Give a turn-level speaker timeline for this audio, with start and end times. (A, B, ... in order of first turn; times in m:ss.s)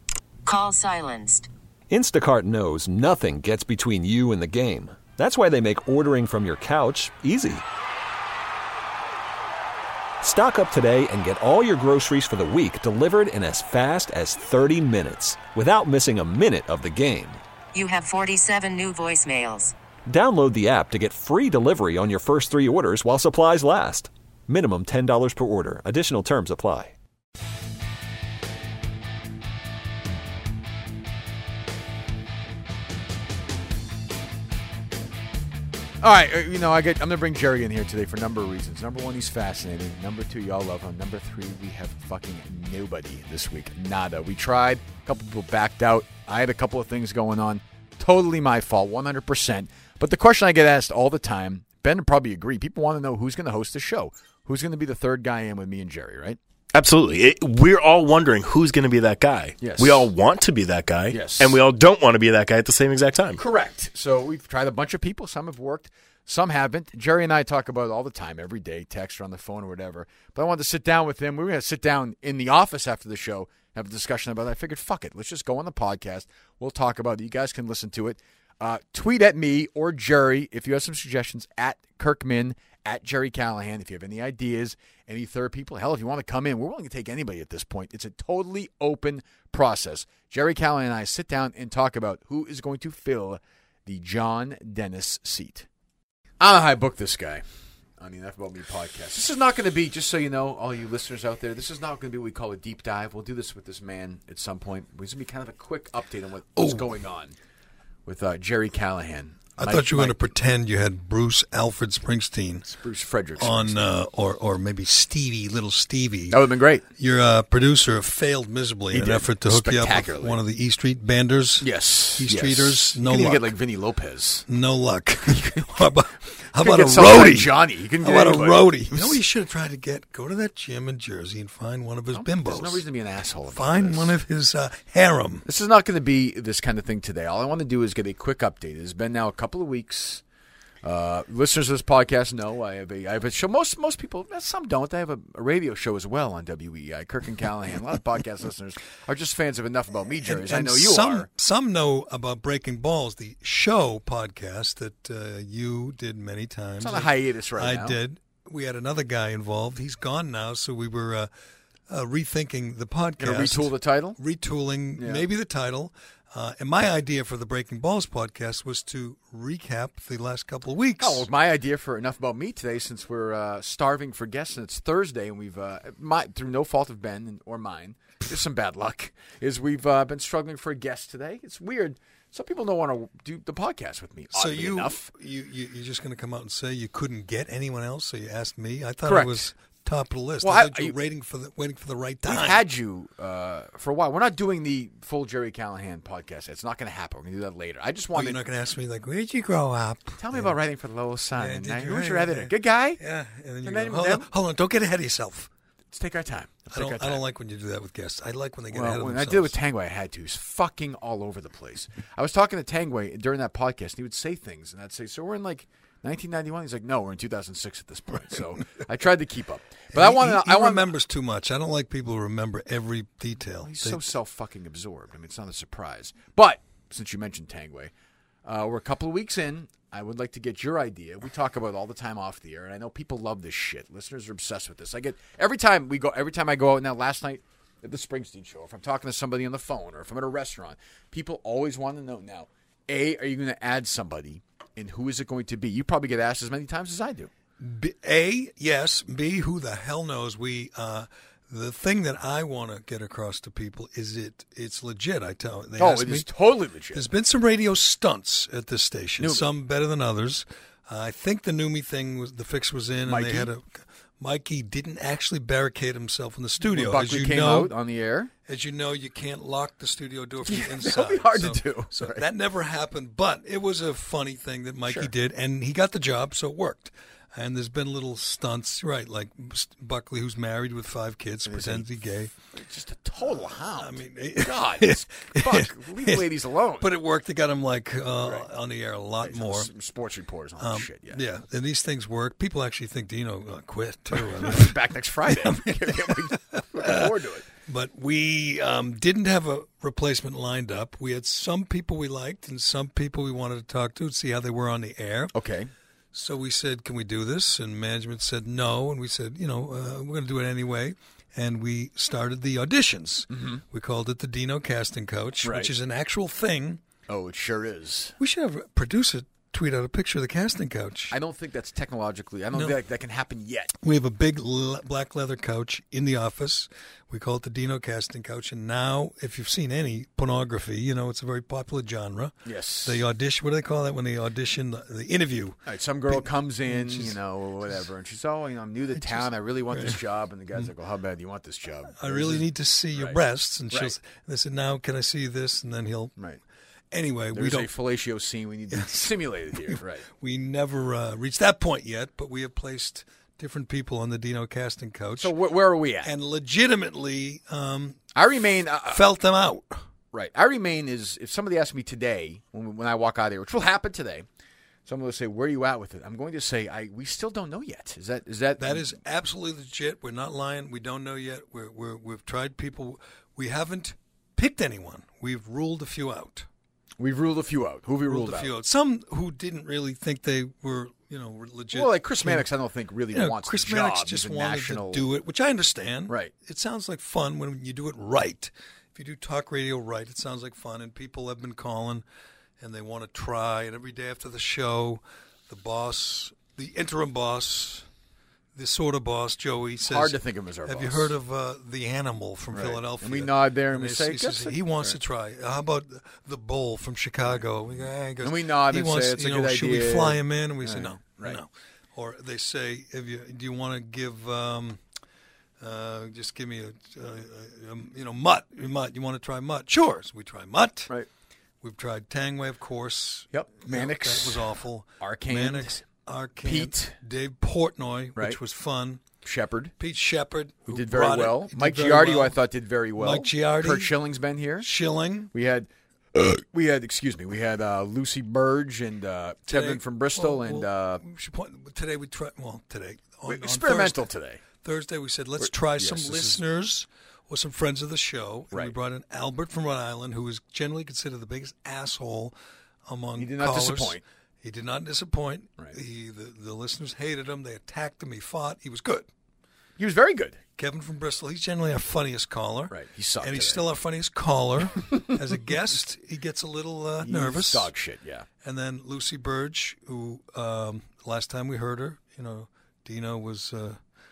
0:00.4-0:01.5 A
0:01.9-0:07.6 B
0:10.2-0:17.4 B
0:17.7-0:19.7 A
0:20.1-0:26.9 B
0:36.0-0:56.4 C
0:56.7-1:03.4 D
0:59.6-1:00.1 C
1:01.1-1:01.6 C
1:03.4-1:35.7 C
1:36.4-1:37.4 C
1:38.0-1:47.4 C
1:46.6-1:46.9 E
1:48.0-1:50.3 C
1:49.6-1:52.7 E
1:52.6-1:53.9 C
1:53.4-1:56.4 E
1:56.3-1:56.8 C
1:57.0-2:03.5 E
1:58.9-2:00.4 C
2:01.6-2:04.4 C
2:04.5-2:12.8 E
2:06.5-2:09.2 C
2:12.1-2:14.2 C
2:13.5-2:15.4 E
2:15.4-2:20.2 C
2:20.8-2:31.3 C
2:30.2-2:41.3 E
2:36.8-2:38.0 C
2:41.9-2:51.3 E
2:43.2-2:44.2 C
2:45.0-2:45.2 C
2:51.0-3:05.0 C
3:04.3-3:12.6 E
3:09.0-3:09.4 C
3:10.4-3:11.0 C
3:12.2-3:18.4 C
3:18.1-3:20.5 E
3:20.2-3:23.0 C
3:21.4-3:25.5 E
3:23.6-3:24.3 C
3:25.9-3:27.2 C
3:26.7-3:29.6 E
3:28.7-3:40.9 C
3:39.9-3:44.0 E
3:43.6-3:47.9 C
3:48.4-4:07.3 C
4:07.6-4:16.3 E
4:15.8-4:17.1 C
4:16.9-4:27.7 E
4:19.2-4:19.5 C
4:23.0-4:23.5 C
4:26.6-4:28.3 C
4:28.4-4:42.3 E
4:30.4-4:32.3 C
4:34.8-4:35.1 C
4:41.4-4:41.9 C
4:42.5-4:46.9 C
4:43.4-4:46.3 E
4:46.8-4:49.7 E
4:48.2-4:48.5 C
4:49.2-4:51.2 C
4:50.6-4:54.7 E
4:54.1-4:57.5 C
4:55.3-4:57.1 E
4:57.6-5:05.3 E
5:05.3-5:05.7 C
5:06.1-5:16.8 E
5:13.3-5:13.6 C
5:15.4-5:15.7 C
5:17.1-5:18.1 C
5:18.2-5:21.2 E
5:21.1-5:23.7 C
5:23.8-5:37.2 E
5:32.4-5:33.0 C
5:35.6-5:43.2 C
5:39.0-5:40.0 E
5:42.0-5:46.2 E
5:46.9-5:47.7 E
5:47.3-5:50.0 C
5:48.7-5:55.3 E
5:55.2-5:56.1 C
5:56.0-5:58.0 E
5:58.1-5:59.1 C
5:58.9-5:59.8 E
6:00.1-6:04.3 C
6:04.8-6:09.0 C
6:08.6-6:16.5 E
6:17.0-6:18.5 C
6:18.0-6:22.4 E
6:21.7-6:25.0 C
6:23.1-6:32.0 E
6:32.6-6:37.9 E
6:38.5-6:54.8 E
6:39.8-6:41.1 C
6:42.5-6:45.0 C
6:47.2-6:51.4 C
6:55.6-7:00.9 E
7:01.6-7:09.0 E
7:03.3-7:04.4 C
7:05.0-7:05.8 C
7:06.4-7:07.0 C
7:09.2-7:09.7 C
7:09.8-7:12.4 E
7:10.7-7:14.7 C
7:13.0-7:14.0 E
7:14.6-7:15.3 E
7:15.3-7:21.0 C
7:19.5-7:24.1 E
7:23.2-7:24.4 C
7:24.6-7:32.3 E
7:25.4-7:26.4 C
7:32.8-7:39.1 E
7:33.2-7:34.0 C
7:39.8-7:40.4 C
7:40.6-7:47.7 E
7:42.7-7:43.6 C
7:47.0-7:48.3 C
7:48.4-7:53.8 E